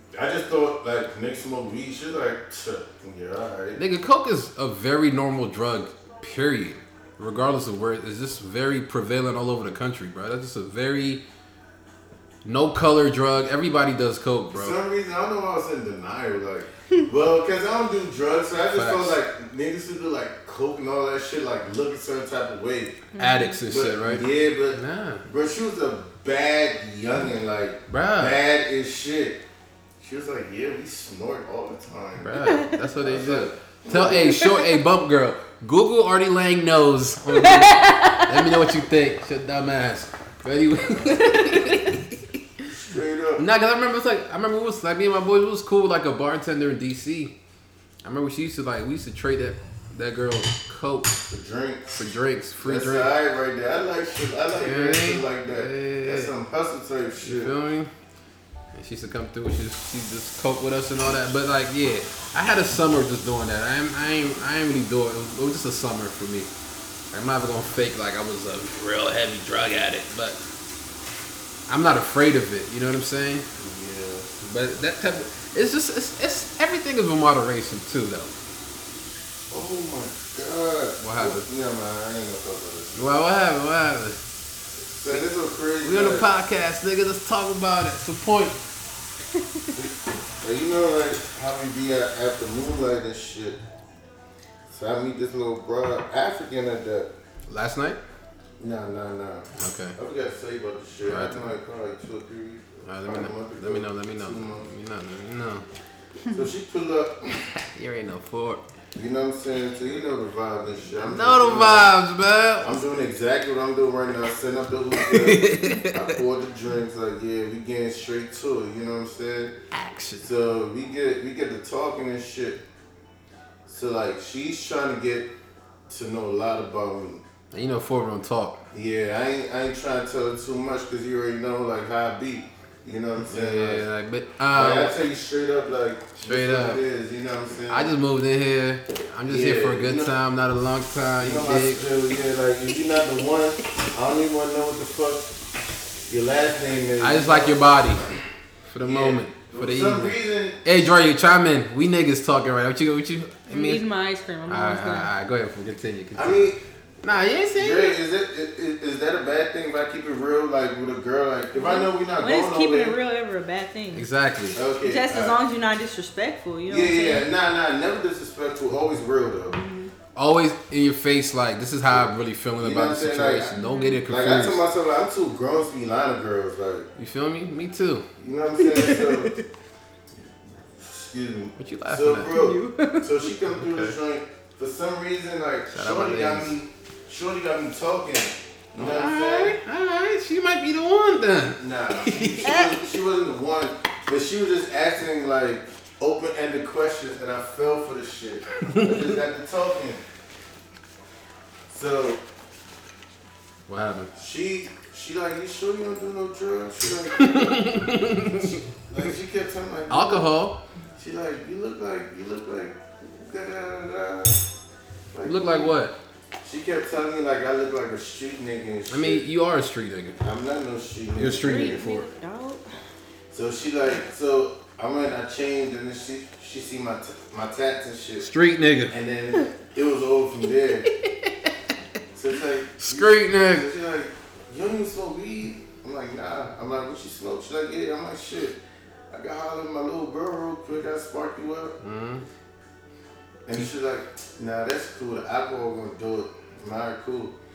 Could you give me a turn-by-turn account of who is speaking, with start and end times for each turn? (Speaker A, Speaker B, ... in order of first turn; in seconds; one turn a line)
Speaker A: 0.1-3.8
Speaker B: 3.8-11.2
Speaker B: 12.4-14.8
Speaker A: 14.5-23.1
Speaker B: 18.7-19.2
Speaker C: 23.1-23.6
Speaker B: 23.2-25.2
Speaker A: 23.7-29.4
Speaker B: 27.9-28.4
Speaker A: 30.0-34.5
Speaker B: 32.2-42.4
Speaker C: 37.4-38.3
Speaker C: 41.1-41.9
Speaker A: 42.8-43.4
Speaker B: 43.4-47.3
Speaker B: 48.0-51.2
Speaker A: 51.3-52.0
Speaker B: 52.0-53.1
Speaker A: 52.6-57.5
Speaker B: 54.6-56.3
Speaker B: 57.2-57.9
Speaker B: 58.7-66.5
Speaker B: 67.1-70.4
Speaker B: 71.7-73.5
Speaker A: 73.6-74.3
Speaker B: 74.4-78.3
Speaker A: 79.5-83.1
Speaker B: 81.0-81.5
Speaker B: 83.0-84.2
Speaker A: 84.9-86.3
Speaker B: 85.8-88.6
Speaker A: 89.7-93.6
Speaker A: 94.7-97.1
Speaker B: 97.5-98.0
Speaker A: 98.6-104.7
Speaker B: 99.6-100.0
Speaker B: 101.0-101.5
Speaker B: 102.9-105.6
Speaker A: 106.3-107.5
Speaker B: 107.6-108.6
Speaker A: 109.0-111.9
Speaker B: 111.0-112.8
Speaker A: 112.6-119.5
Speaker B: 115.0-116.2
Speaker B: 119.7-120.3
Speaker A: 120.2-122.6
Speaker A: 123.7-125.3
Speaker A: 125.9-127.2
Speaker B: 127.5-128.6
Speaker A: 128.7-133.9
Speaker B: 133.2-134.9
Speaker A: 134.5-137.9
Speaker B: 136.2-136.8
Speaker B: 137.7-141.9
Speaker A: 139.3-140.1
Speaker A: 141.2-145.4
Speaker A: 146.1-147.7
Speaker B: 147.0-148.1
Speaker B: 148.7-153.8
Speaker A: 148.8-150.6
Speaker C: 153.5-155.1
Speaker B: 154.5-158.0
Speaker A: 156.1-156.6
Speaker A: 157.6-162.9
Speaker C: 161.6-164.1
Speaker B: 163.9-164.6
Speaker A: 164.6-165.4
Speaker C: 164.8-167.3
Speaker A: 166.7-169.6
Speaker C: 169.5-169.9
Speaker B: 170.1-174.6
Speaker A: 171.9-176.9
Speaker C: 173.6-174.0
Speaker B: 177.0-178.1
Speaker A: 178.2-179.4
Speaker C: 178.6-179.4
Speaker A: 180.8-189.6
Speaker B: 181.6-182.3
Speaker C: 182.3-183.2
Speaker B: 183.5-183.9
Speaker B: 185.7-186.6
Speaker B: 188.7-192.8
Speaker A: 191.6-200.0
Speaker C: 192.4-192.8
Speaker B: 198.6-199.2
Speaker A: 201.7-202.2
Speaker B: 203.7-204.1
Speaker A: 204.1-210.3
Speaker B: 207.2-208.6
Speaker B: 209.9-210.6
Speaker A: 211.0-214.4
Speaker A: 215.1-215.7
Speaker B: 215.2-215.9
Speaker A: 216.4-219.2
Speaker B: 218.9-220.2
Speaker A: 220.2-221.8
Speaker B: 221.2-222.1
Speaker C: 221.3-222.7
Speaker A: 223.3-228.3
Speaker B: 228.2-228.9
Speaker A: 228.9-230.9
Speaker B: 230.9-231.5
Speaker A: 232.1-238.6
Speaker B: 232.8-233.7
Speaker A: 239.1-241.8
Speaker B: 241.8-242.3
Speaker A: 243.5-247.3